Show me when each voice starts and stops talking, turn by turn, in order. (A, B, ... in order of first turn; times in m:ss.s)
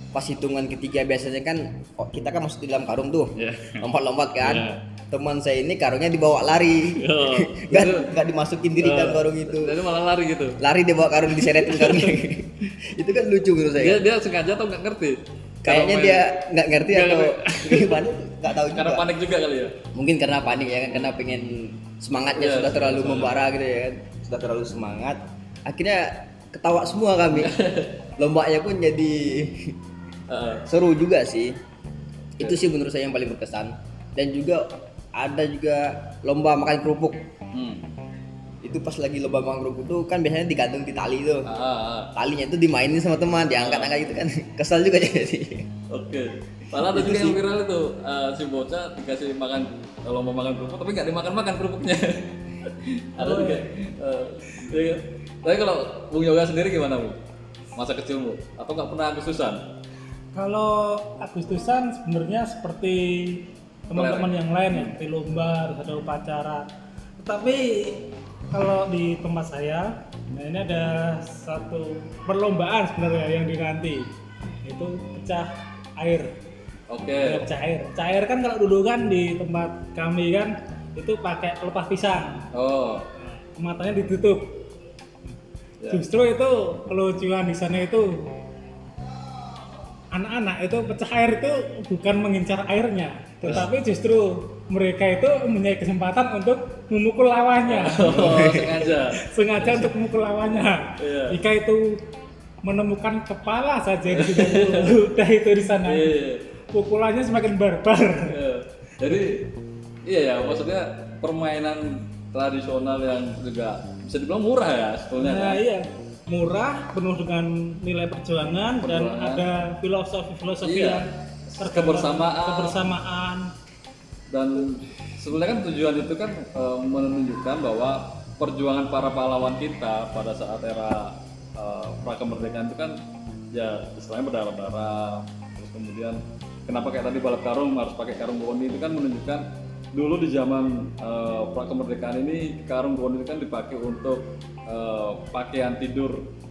0:00.1-0:09.8 A
0:03.4-0:03.8 B
0:04.4-0:04.8 B
0:06.9-0:08.1 B
0:08.8-0:10.6 B
0:10.6-0:14.0 A
0:11.4-0:12.2 B
0:13.8-0:16.3 B
0:15.6-0:19.1 A
0:16.9-0:18.0 B
0:18.7-0:19.8 B
0:19.9-0:27.5 A
0:22.3-0:23.5 B
0:27.3-0:28.0 B
0:28.2-0:29.7 A
0:30.3-0:30.6 B
0:30.7-0:31.5 A
0:32.4-0:37.2 A
0:37.5-0:37.9 B
0:38.6-0:41.5 A
0:41.5-0:42.1 B
0:42.1-0:45.7 A
0:43.5-0:44.2 B
0:45.9-0:57.2 B
0:46.8-0:47.4 A
0:53.2-0:53.6 C
0:57.8-0:59.6 B
1:00.3-1:06.6 C
1:03.9-1:04.9 B
1:07.2-1:14.1 C
1:14.6-1:15.5 C
1:16.0-1:16.3 C
1:16.9-1:17.5 B
1:17.2-1:22.4 C
1:22.5-1:23.1 B
1:23.6-1:24.5 C
1:25.8-1:26.0 B
1:25.9-1:28.1 C
1:30.1-1:38.6 C
1:33.4-1:33.7 B
1:37.6-1:39.9 B
1:38.2-1:38.6 A
1:39.1-1:42.0 C
1:41.0-1:41.4 B
1:42.6-1:46.1 C
1:44.1-1:45.0 B
1:45.8-1:46.4 B
1:46.7-1:48.3 C
1:48.3-1:49.5 B
1:50.0-1:55.6 B
1:55.2-2:03.5 C
1:58.8-1:59.4 B
2:00.6-2:02.9 B
2:04.3-2:12.9 B
2:13.5-2:26.2 B